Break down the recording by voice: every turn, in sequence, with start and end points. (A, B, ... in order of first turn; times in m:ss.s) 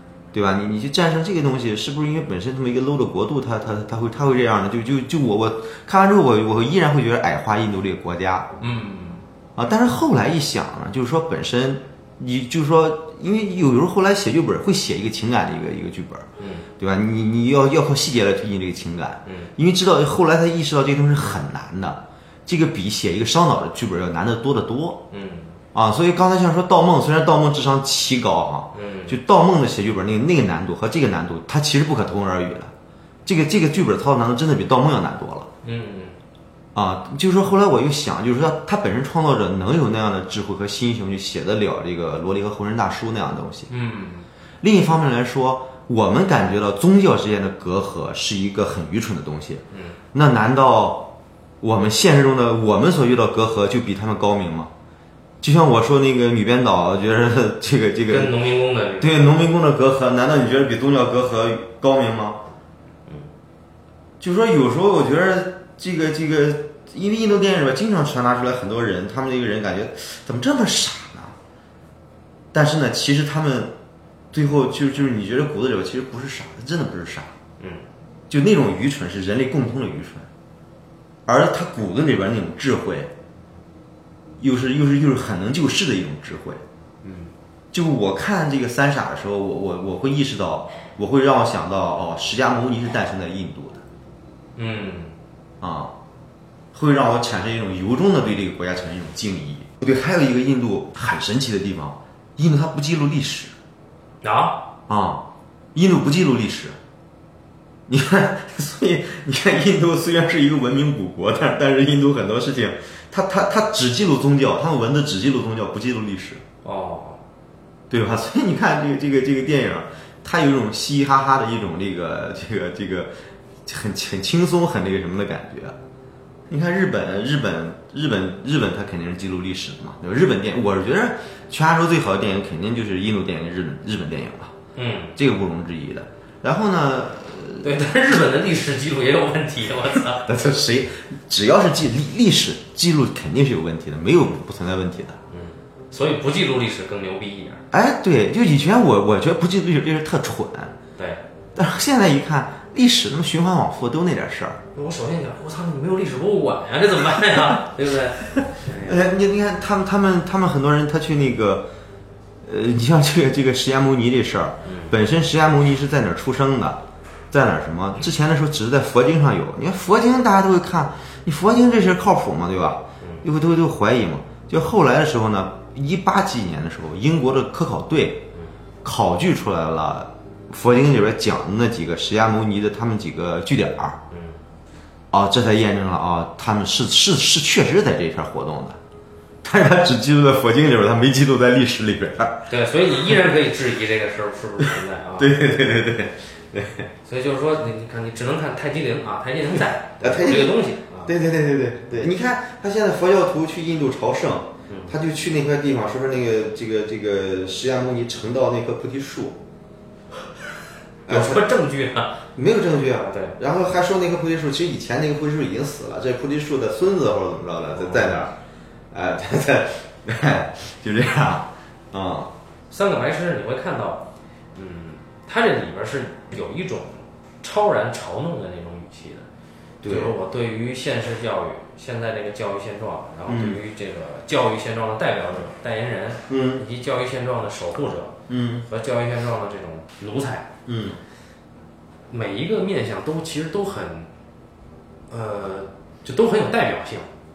0:00.3-0:08.5 A
0:08.6-0:09.2 B
0:09.6-0:16.3 A
0:16.4-0:16.7 B
0:16.8-0:25.0 A
0:19.2-0:19.5 B
0:25.1-0:25.6 B
0:25.7-0:32.7 A
0:28.7-0:29.2 B
0:33.3-0:35.5 A
0:35.6-0:36.2 B
0:36.8-0:43.7 A
0:43.7-0:44.3 B
0:44.6-0:54.7 A
0:49.7-0:50.0 B
0:55.4-0:58.4 A
0:58.1-0:59.2 B
0:59.0-1:02.4 A
1:04.2-1:11.4 A
1:12.5-1:13.8 A
1:14.3-1:17.3 A
1:18.3-1:20.3 A
1:21.3-1:23.1 A
1:24.4-1:26.6 A
1:27.0-1:27.3 B
1:27.7-1:33.8 A
1:34.6-1:35.2 B
1:35.6-1:35.9 A
1:36.7-1:43.6 A
1:44.2-1:44.6 B
1:44.9-1:46.8 A
1:47.9-1:56.4 A
1:56.6-1:57.2 B
1:57.9-2:03.1 A
2:03.6-2:05.8 A
2:06.5-2:14.5 A
2:14.8-2:15.2 B
2:15.2-2:17.7 A
2:17.6-2:20.3 B
2:20.2-2:25.2 A
2:25.3-2:27.6 B
2:27.7-2:30.8 A
2:31.0-2:31.2 B
2:31.6-2:34.6 A
2:34.7-2:39.0 B
2:38.4-2:41.7 A
2:42.4-2:46.8 A
2:44.6-2:45.0 B
2:47.3-2:58.3 A
2:58.8-3:04.0 A
3:04.1-3:04.4 B
3:05.1-3:08.8 A
3:09.4-3:12.5 A
3:12.5-3:15.4 B
3:15.2-3:16.9 A
3:17.0-3:21.1 B
3:20.0-3:29.4 A
3:24.7-3:25.0 B
3:31.1-3:31.4 A
3:31.1-3:32.2 B
3:32.4-3:38.4 A
3:33.0-3:33.4 B
3:37.8-3:38.3 B
3:38.9-3:42.3 A
3:42.7-3:49.3 B
3:49.8-3:50.1 A
3:49.9-4:00.5 B
3:53.3-3:53.6 A
3:56.3-3:56.6 A
3:58.3-3:58.7 A
4:00.7-4:01.0 A
4:02.1-4:04.1 B
4:05.1-4:07.1 B